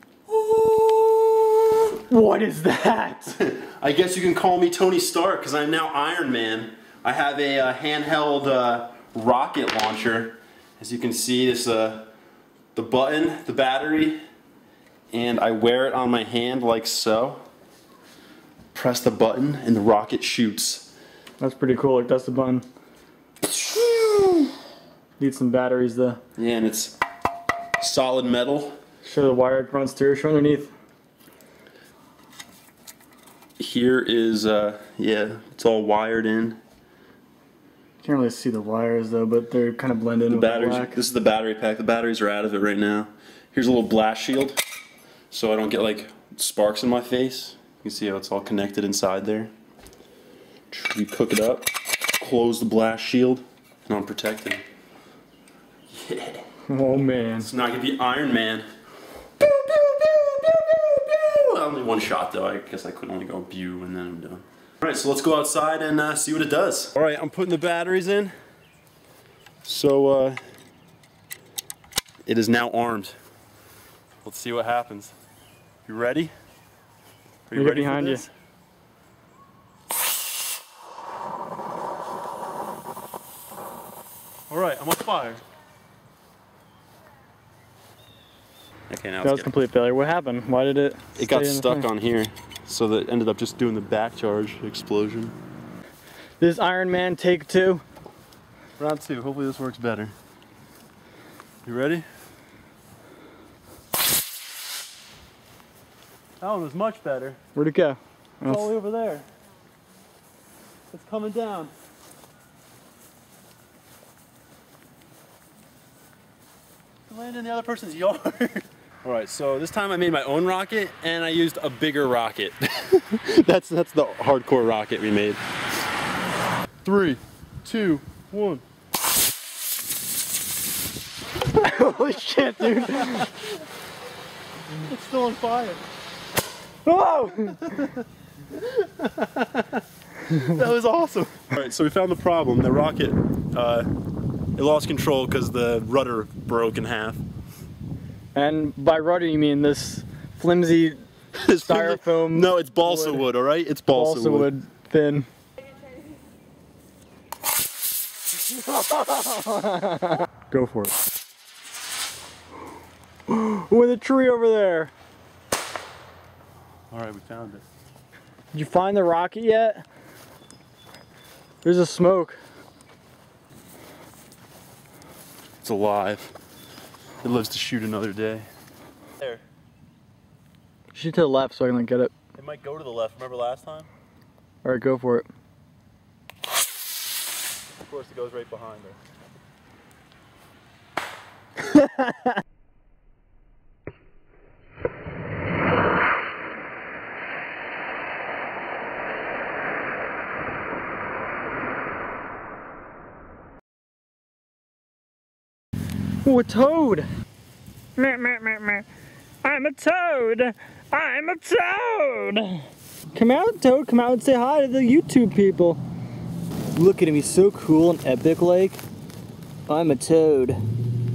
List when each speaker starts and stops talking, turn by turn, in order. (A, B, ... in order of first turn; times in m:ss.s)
0:00.4-0:01.3 A
0:02.1-0:03.4 B
0:03.4-0:12.1 A
0:12.8-0:14.2 A
0:15.1-0:17.4 A
0:18.7-0:20.9 A
0:21.4-0:22.7 B
0:23.5-0:24.5 A
0:25.2-0:26.2 B
0:26.4-0:27.0 A
0:27.8-0:28.8 A
0:29.0-0:30.7 B
0:33.6-0:36.6 A
0:38.0-0:41.0 B
0:40.3-0:44.6 A
0:45.3-0:49.5 A
0:50.7-0:54.6 A
0:55.9-0:56.5 A
0:56.7-0:57.5 B
0:57.4-0:58.7 A
0:59.4-1:08.3 A
1:09.6-1:10.4 A
1:12.3-1:13.2 A
1:14.2-1:15.1 A
1:15.9-1:16.3 A
1:17.5-1:18.3 A
1:17.6-1:18.2 B
1:24.5-1:25.4 A
1:28.9-1:29.5 A
1:29.2-1:31.9 B
1:31.2-1:35.4 A
1:36.4-1:37.8 B
1:38.8-1:40.1 A
1:41.6-1:42.1 A
1:46.4-1:47.4 A
1:47.6-1:48.6 B
1:48.4-1:49.3 A
1:50.9-1:51.7 A
1:57.1-2:05.4 A
2:06.8-2:08.6 A
2:11.5-2:13.3 B
2:12.7-2:13.3 A
2:14.8-2:15.8 A
2:16.9-2:17.9 B
2:18.6-2:19.7 A
2:20.3-2:23.9 A
2:24.6-2:27.2 A
2:28.4-2:31.0 B
2:31.3-2:34.5 A
2:31.7-2:33.3 B
2:33.9-2:35.3 B
2:38.4-2:41.0 B
2:43.3-2:44.9 B
2:46.9-2:47.6 A
2:48.5-2:49.9 B
2:51.6-2:52.4 B
2:55.6-2:56.3 A
2:57.2-2:58.5 A
3:00.9-3:02.1 B
3:02.4-3:03.9 A
3:04.6-3:05.3 B
3:07.8-3:09.0 A
3:26.2-3:27.1 B
3:28.0-3:28.9 B
3:29.4-3:35.8 B
3:36.7-3:38.8 B
3:39.7-3:40.6 B